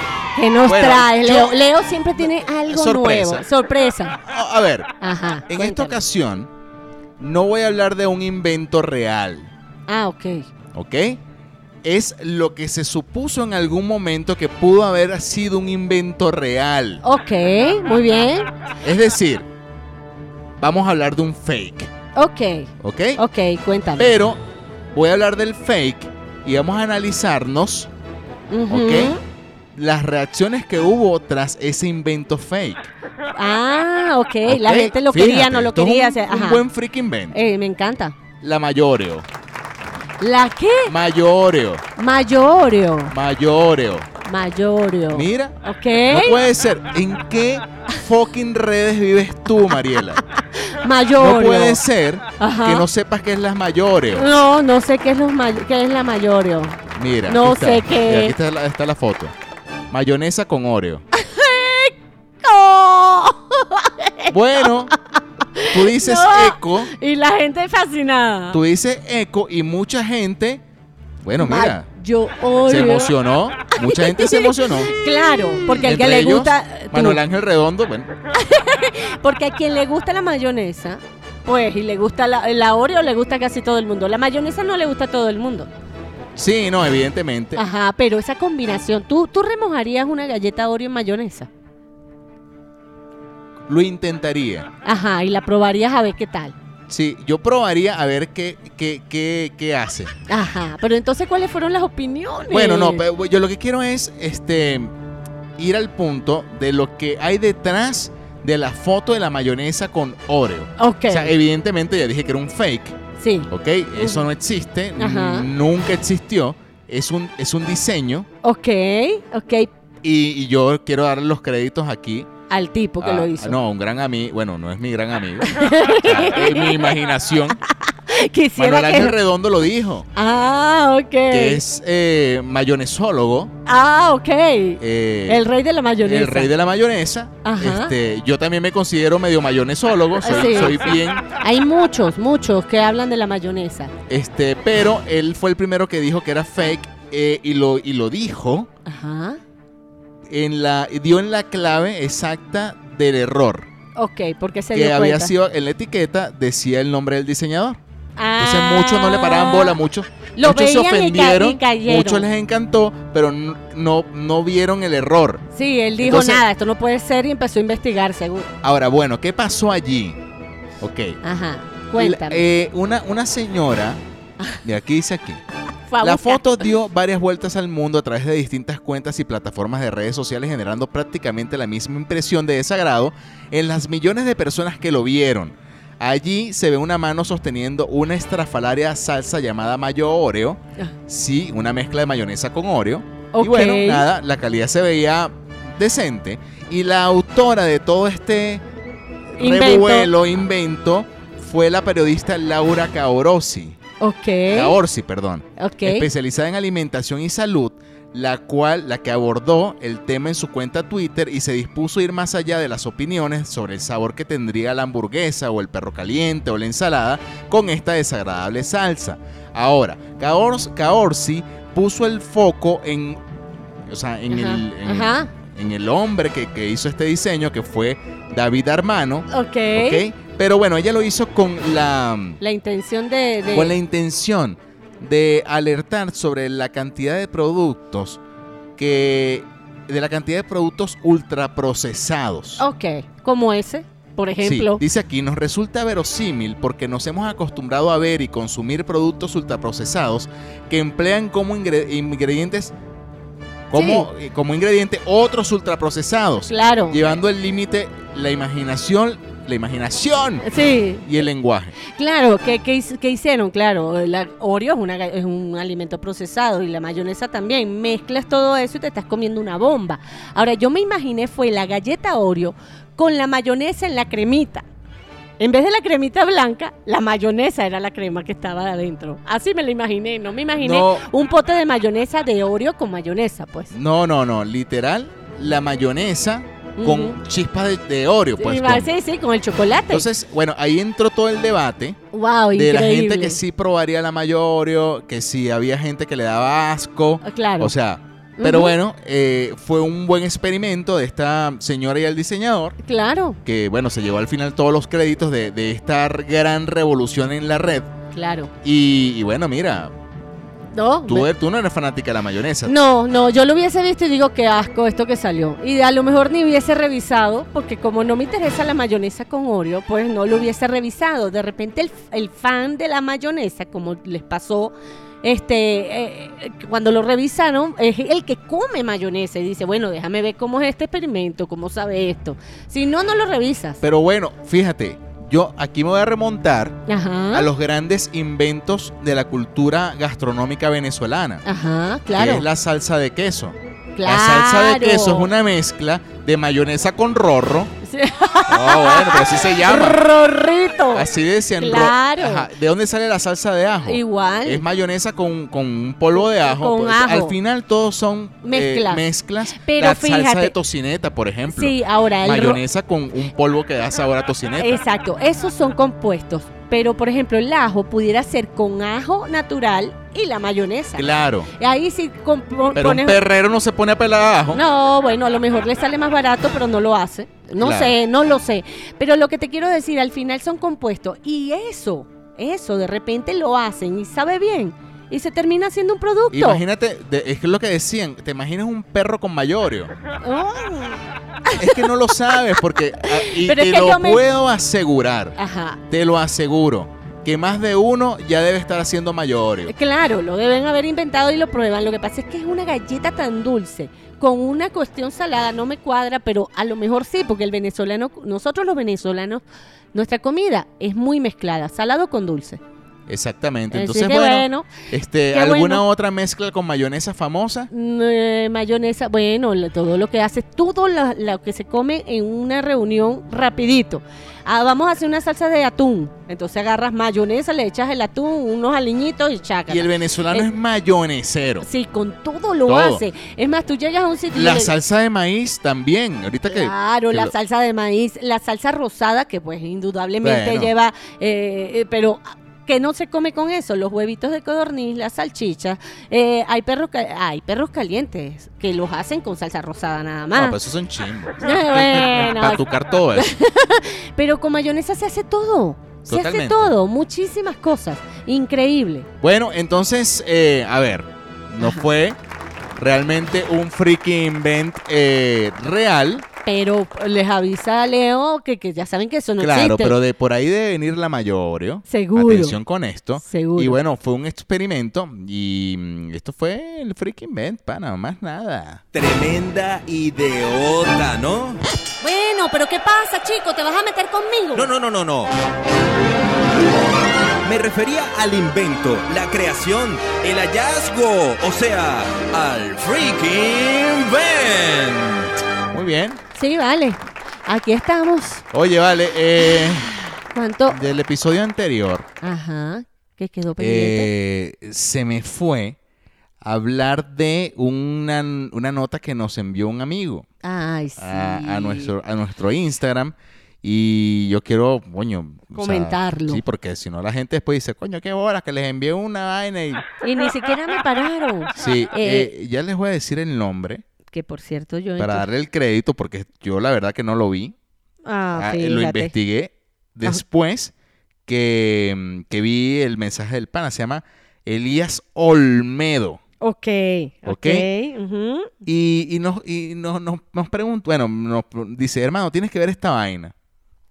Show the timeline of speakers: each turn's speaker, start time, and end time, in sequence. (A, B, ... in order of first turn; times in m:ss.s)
0:00.4-0:04.2 A
0:00.6-0:01.6 B
0:02.2-0:03.4 B
0:04.2-0:04.9 B
0:05.0-0:06.0 A
0:05.5-0:06.5 B
0:07.2-0:09.5 B
0:09.9-0:10.5 A
0:10.7-0:11.2 B
0:11.8-0:17.0 B
0:17.0-0:18.5 A
0:18.8-0:19.5 B
0:20.6-0:21.9 B
0:22.1-0:24.1 A
0:22.8-0:23.2 B
0:24.0-0:24.4 B
0:24.9-0:27.9 B
0:28.5-0:29.2 A
0:28.7-0:29.1 B
0:29.7-0:32.9 B
0:33.4-0:36.6 A
0:34.4-0:37.4 B
0:37.3-0:38.2 A
0:38.4-0:39.3 B
0:40.2-0:40.9 A
0:40.9-0:41.8 B
0:42.0-0:43.1 A
0:43.1-0:44.1 B
0:44.2-0:46.4 A
0:45.1-0:45.6 B
0:46.1-0:50.2 B
0:50.6-0:51.8 A
0:51.2-0:54.3 B
0:52.4-0:52.9 A
0:54.1-0:58.3 A
0:57.0-0:59.3 B
0:59.9-1:01.0 B
1:01.1-1:08.6 A
1:04.3-1:04.9 B
1:05.7-1:06.9 B
1:08.5-1:10.6 B
1:11.2-1:11.9 B
1:11.4-1:13.1 A
1:12.6-1:15.0 B
1:13.8-1:17.2 A
1:15.7-1:18.1 B
1:18.3-1:25.7 A
1:26.3-1:27.6 B
1:27.6-1:31.5 A
1:33.7-1:34.7 B
1:34.8-1:36.6 A
1:36.9-1:40.1 B
1:40.3-1:43.0 A
1:42.5-1:44.9 B
1:45.6-1:53.0 B
1:50.8-1:51.3 A
1:53.2-1:54.3 A
1:53.5-1:58.3 B
1:55.0-1:55.5 A
1:58.4-1:59.7 A
2:00.0-2:02.3 B
2:02.5-2:03.6 A
2:03.0-2:07.6 B
2:05.4-2:06.9 A
2:07.6-2:09.1 A
2:08.6-2:10.1 B
2:10.1-2:11.6 A
2:11.3-2:13.5 B
2:13.7-2:16.5 A
2:14.8-2:15.4 B
2:16.0-2:21.2 B
2:17.4-2:17.9 A
2:20.2-2:23.9 A
2:24.1-2:28.7 B
2:28.9-2:29.4 A
2:30.3-2:33.7 B
2:34.0-2:35.3 A
2:34.7-2:37.8 B
2:38.2-2:39.8 A
2:38.4-2:45.4 B
2:40.4-2:42.3 A
2:45.5-2:48.5 A
2:46.0-2:46.4 B
2:48.6-2:50.2 B
2:50.8-2:51.2 B
2:51.2-2:52.4 A
2:52.0-2:54.0 B
2:54.6-2:55.4 B
2:55.9-2:56.4 A
2:56.0-3:18.6 B
3:13.3-3:14.0 A
3:19.3-3:23.8 B
3:19.4-3:20.1 A
3:24.0-3:24.8 A
3:24.5-3:43.2 B
3:25.6-3:26.0 A
3:43.9-3:52.4 B
3:44.3-3:45.3 A
3:49.3-3:50.0 A
3:52.4-3:53.7 A
3:53.5-3:58.2 B
3:58.8-4:02.6 B
4:02.6-4:04.8 A
4:04.4-4:12.7 B
4:13.7-4:20.5 B
4:13.7-4:14.1 A
4:16.5-4:17.0 A
4:20.4-4:21.1 A
4:21.0-4:21.7 B
4:21.8-4:34.7 A
4:35.4-4:43.7 A
4:40.6-4:41.0 B
4:43.7-4:48.9 B
4:46.8-4:47.2 A
4:48.4-4:50.0 A
4:49.9-4:52.0 B
4:52.1-4:53.4 A
4:52.5-5:02.8 B
4:57.2-4:57.7 A
4:58.4-4:58.8 A
5:02.8-5:03.4 A
5:03.4-5:07.9 B
5:08.1-5:08.5 A
5:08.6-5:09.9 B
5:10.7-5:11.3 A
5:11.1-5:12.7 B
5:12.6-5:33.8 A
5:33.8-5:36.8 B
5:36.9-5:37.5 A
5:37.3-5:41.4 B
5:41.4-5:42.5 A
5:42.1-5:47.7 B
5:44.0-5:45.3 A
5:47.8-5:51.0 A
5:48.5-5:50.0 B
5:50.9-6:04.8 B
5:51.6-5:52.5 A
5:53.9-5:54.6 A
5:56.2-5:57.4 A
5:58.4-6:00.6 A
6:01.5-6:02.6 A
6:04.6-6:13.2 A
6:11.0-6:11.5 B
6:12.7-6:14.6 B
6:14.5-6:26.6 A
6:17.6-6:18.0 B
6:26.3-6:29.9 B
6:30.2-6:31.9 A
6:31.6-6:35.4 B
6:33.0-6:34.2 A
6:35.4-6:35.8 A
6:35.9-6:39.7 B
6:39.7-6:52.6 A
6:53.1-6:57.7 B
6:53.7-6:54.7 A
6:55.3-6:55.8 A
6:57.7-7:10.5 A
7:09.7-7:11.7 B
7:11.6-7:14.7 A
7:12.7-7:13.0 B
7:14.3-7:17.3 B
7:16.5-7:30.6 A
7:20.2-7:20.7 B
7:30.3-7:33.3 B
7:31.4-7:39.1 A
7:36.0-7:36.7 B
7:39.2-7:42.2 B
7:41.6-7:41.9 A
7:42.8-7:46.3 B
7:46.4-7:50.0 A
7:49.4-7:58.8 B
7:51.9-7:52.6 A
7:53.2-7:53.8 A
7:58.9-8:01.6 C
8:02.0-8:04.7 A
8:04.6-8:05.3 C
8:07.4-8:15.4 C
8:15.7-8:16.2 B
8:16.3-8:18.4 A
8:18.5-8:19.9 B
8:20.3-8:20.8 A
8:20.7-8:22.1 B
8:22.2-8:24.1 A
8:23.6-8:25.8 B
8:26.4-8:30.3 B
8:30.4-8:31.9 A
8:31.0-8:39.9 B
8:35.6-8:36.4 A
8:40.0-8:42.3 A
8:41.6-8:43.8 B
8:44.1-8:45.3 A
8:45.0-8:47.6 B
8:48.0-8:49.1 A
8:48.3-8:50.7 B
8:51.3-8:56.2 B
8:56.4-8:58.6 A
8:57.3-8:57.7 B
8:58.6-9:03.3 B